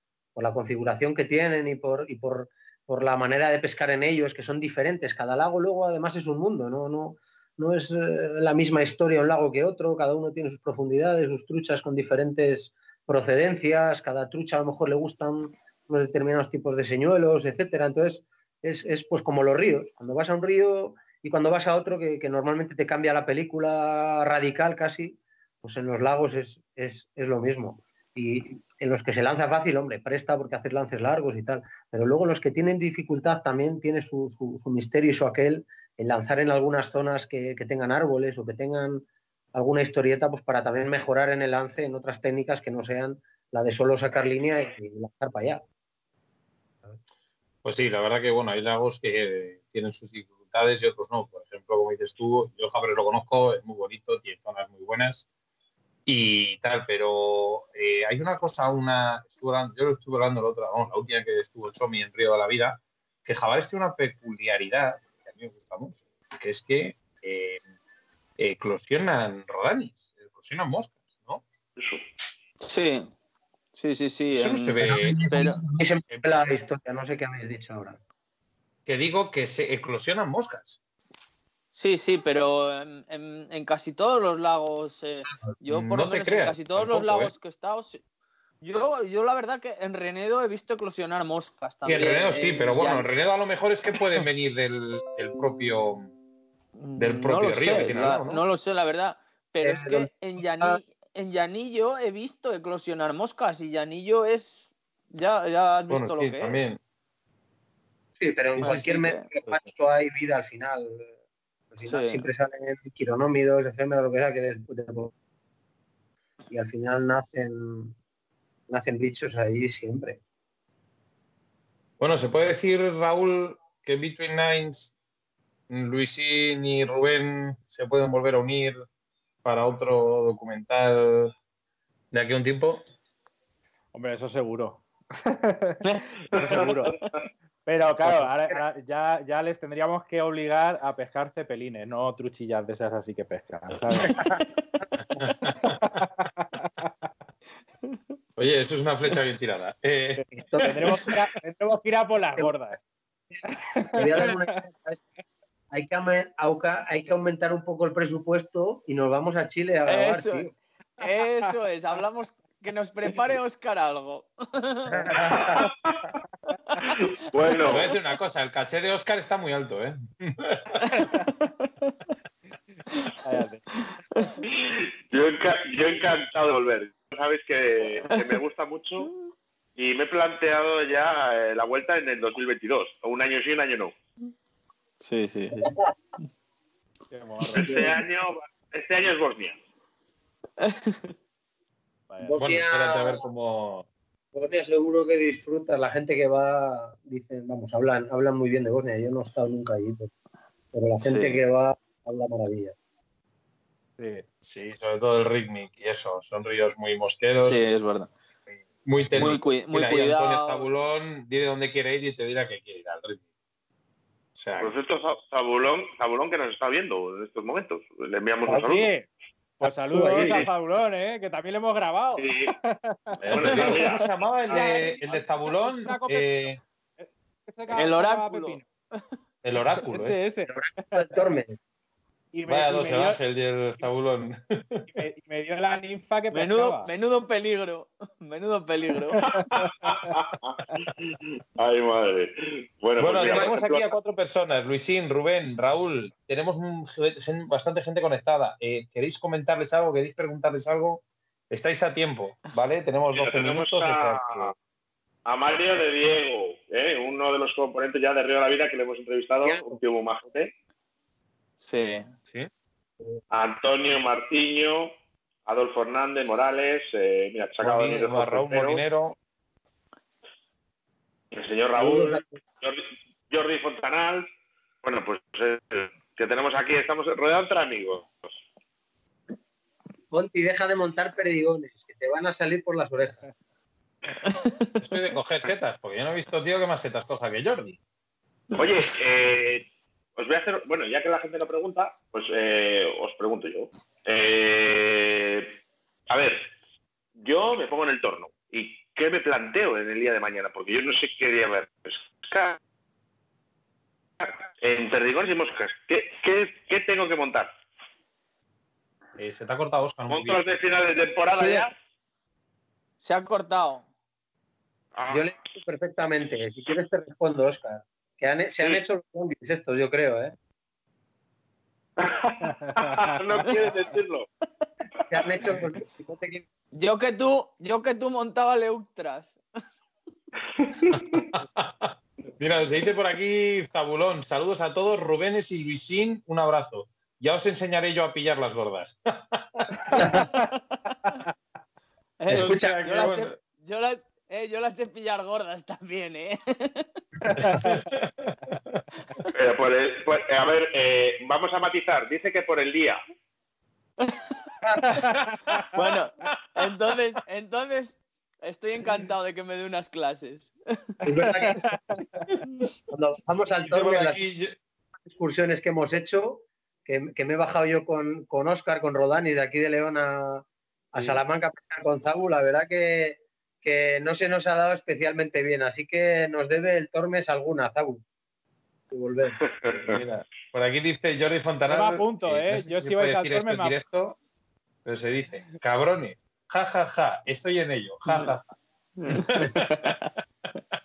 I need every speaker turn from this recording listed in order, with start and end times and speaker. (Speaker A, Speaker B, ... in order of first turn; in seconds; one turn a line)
Speaker A: 0.3-45.6
Speaker B: 47.6-55.2
Speaker B: 56.0-67.6
Speaker B: 68.4-71.4
Speaker C: 71.8-72.0
Speaker D: 72.6-73.1
Speaker D: 73.7-75.6
Speaker B: 74.3-75.2
Speaker A: 74.9-78.0
Speaker B: 76.1-76.4
Speaker B: 78.8-80.8
Speaker D: 81.7-88.0
Speaker B: 85.7-87.3
Speaker D: 88.6-93.0
Speaker B: 91.8-96.1
Speaker D: 96.8-106.7
Speaker B: 97.0-98.4
Speaker A: 99.6-100.1
Speaker B: 105.9-106.8
Speaker A: 108.2-111.1
Speaker D: 108.6-109.3
Speaker A: 111.7-115.1
Speaker D: 111.8-112.2
Speaker A: 116.5-117.9
Speaker A: 118.7-120.2
Speaker B: 122.0-124.9
Speaker B: 125.7-128.8
Speaker B: 129.4-131.3
Speaker B: 132.1-132.8
Speaker E: 133.9-136.9
Speaker D: 135.8-136.4
Speaker C: 136.4-136.8
Speaker E: 137.7-144.4
Speaker B: 145.2-146.1
Speaker E: 145.5-146.9
Speaker B: 148.4-151.1
Speaker E: 150.2-152.8
Speaker A: 150.3-150.8
Speaker E: 153.4-154.6
Speaker A: 153.9-155.0
Speaker A: 155.7-160.5
Speaker D: 159.9-165.2
Speaker E: 164.9-165.5
Speaker C: 165.3-166.0
Speaker C: 166.9-167.9
Speaker B: 167.6-171.0
Speaker D: 170.8-171.9
Speaker E: 173.2-173.6
Speaker C: 174.5-179.1
Speaker C: 179.8-183.9
Speaker D: 185.0-185.7
Speaker E: 187.1-187.9
Speaker C: 187.5-189.6
Speaker A: 187.6-187.9
Speaker D: 190.6-191.1
Speaker E: 192.1-192.4
Speaker A: 192.2-193.2
Speaker B: 192.3-193.9
Speaker A: 194.3-200.1
Speaker A: 200.7-202.8
Speaker D: 201.0-201.4
Speaker E: 204.0-204.2
Speaker B: 204.4-207.6
Speaker D: 207.4-208.1
Speaker B: 208.8-213.2
Speaker D: 209.1-210.7
Speaker B: 214.3-214.7
Speaker C: 214.6-218.9
Speaker E: 218.5-219.1
Speaker A: 219.6-220.5
Speaker E: 219.6-223.2
Speaker C: 220.1-220.5
Speaker C: 222.2-222.5
Speaker B: 223.2-226.6
Speaker C: 223.3-224.1
Speaker E: 224.5-228.7
Speaker D: 227.7-229.0
Speaker B: 229.4-230.2
Speaker E: 229.9-231.0
Speaker A: 230.5-231.6
Speaker E: 232.3-233.2
Speaker B: 232.5-234.9
Speaker E: 234.9-236.9
Speaker D: 236.3-239.2
Speaker E: 239.1-240.8
Speaker C: 239.5-243.9
Speaker B: 243.0-254.5
Speaker A: 243.2-243.5
Speaker C: 253.1-254.5
Speaker C: 255.2-260.5
Speaker A: 259.4-259.8
Speaker D: 261.6-262.1
Speaker C: 263.3-264.9
Speaker C: 265.4-268.8
Speaker B: 267.6-269.2
Speaker C: 271.3-274.3
Speaker A: 271.7-272.4
Speaker C: 274.8-278.4
Speaker A: 280.1-283.2
Speaker D: 284.2-284.7
Speaker B: 284.8-287.8
Speaker C: 288.5-289.6
Speaker C: 290.2-295.6
Speaker C: 296.1-296.5
Speaker C: 297.2-302.6
Speaker C: 304.2-307.5
Speaker B: 309.1-310.4
Speaker C: 310.1-311.7
Speaker D: 311.3-311.7
Speaker D: 313.0-313.8
Speaker C: 314.9-315.2
Speaker A: 315.1-320.3
Speaker C: 322.0-324.3
Speaker E: 322.5-323.4
Speaker A: 325.1-326.4
Speaker D: 326.7-329.4
Speaker C: 330.6-331.2
Speaker B: 330.9-340.0
Speaker E: 339.9-340.5
Speaker D: 340.7-341.1
Speaker D: 342.2-346.9
Speaker A: 342.3-342.8
Speaker B: 342.3-343.3
Speaker E: 347.2-347.8
Speaker B: 347.3-349.2
Speaker C: 349.3-353.0
Speaker E: 354.8-355.6
Speaker B: 354.9-355.7
Speaker D: 355.7-360.6
Speaker A: 361.0-361.6
Speaker E: 361.1-362.4
Speaker A: 362.9-364.2
Speaker B: 363.6-364.6
Speaker A: 365.1-378.0
Speaker A: 378.9-379.4
Speaker C: 379.4-379.8
Speaker E: 379.9-380.2
Speaker B: 380.5-384.2
Speaker E: 381.7-383.8
Speaker B: 384.8-388.5
Speaker D: 389.0-389.9
Speaker B: 389.1-390.0